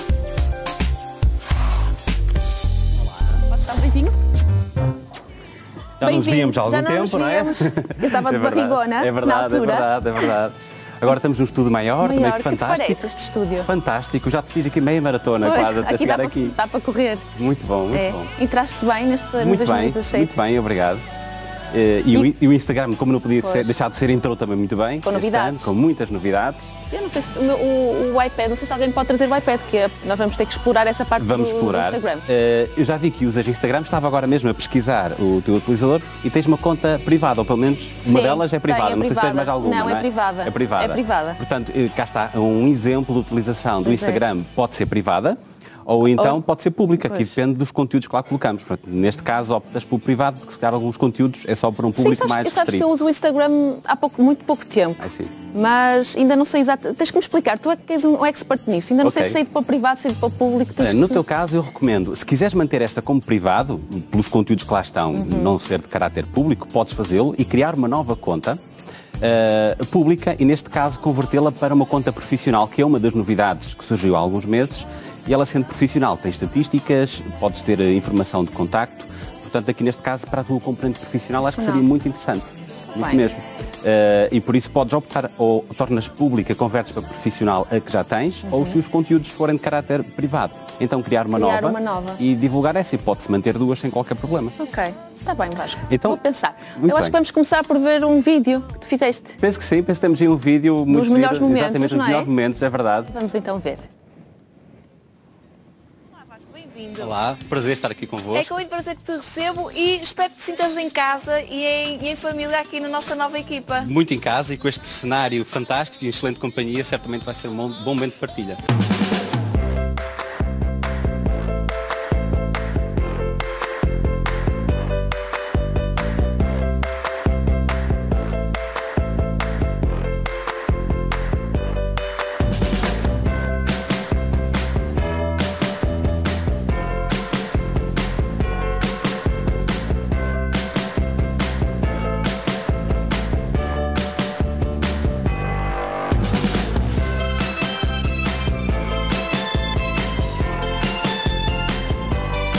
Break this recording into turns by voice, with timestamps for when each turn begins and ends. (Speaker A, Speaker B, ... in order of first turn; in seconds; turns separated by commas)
Speaker A: 3.4-4.2, Speaker B: 6.0-16.6, Speaker A: 6.0-10.3, Speaker A: 12.0-13.7, Speaker A: 15.4-17.3, Speaker B: 17.3-18.3, Speaker A: 17.9-20.3, Speaker B: 19.4-21.0, Speaker B: 21.7-26.7, Speaker A: 23.4-23.7, Speaker A: 25.0-25.7, Speaker A: 26.9-32.2, Speaker B: 31.2-52.9, Speaker A: 38.0-41.4, Speaker A: 43.8-44.2, Speaker A: 51.9-61.2, Speaker B: 55.0-55.3, Speaker B: 59.0-59.4, Speaker B: 60.8-68.6, Speaker A: 65.1-65.5, Speaker B: 69.2-94.5, Speaker A: 81.4-81.8, Speaker A: 83.0-83.2, Speaker A: 88.5-88.7, Speaker A: 91.3-92.2, Speaker A: 94.6-99.4, Speaker B: 95.9-96.2, Speaker B: 96.8-97.2, Speaker B: 99.4-103.1, Speaker A: 100.9-102.3, Speaker A: 103.1-103.9, Speaker C: 106.3-107.1, Speaker B: 107.0-108.6, Speaker C: 108.3-113.9, Speaker B: 113.8-118.6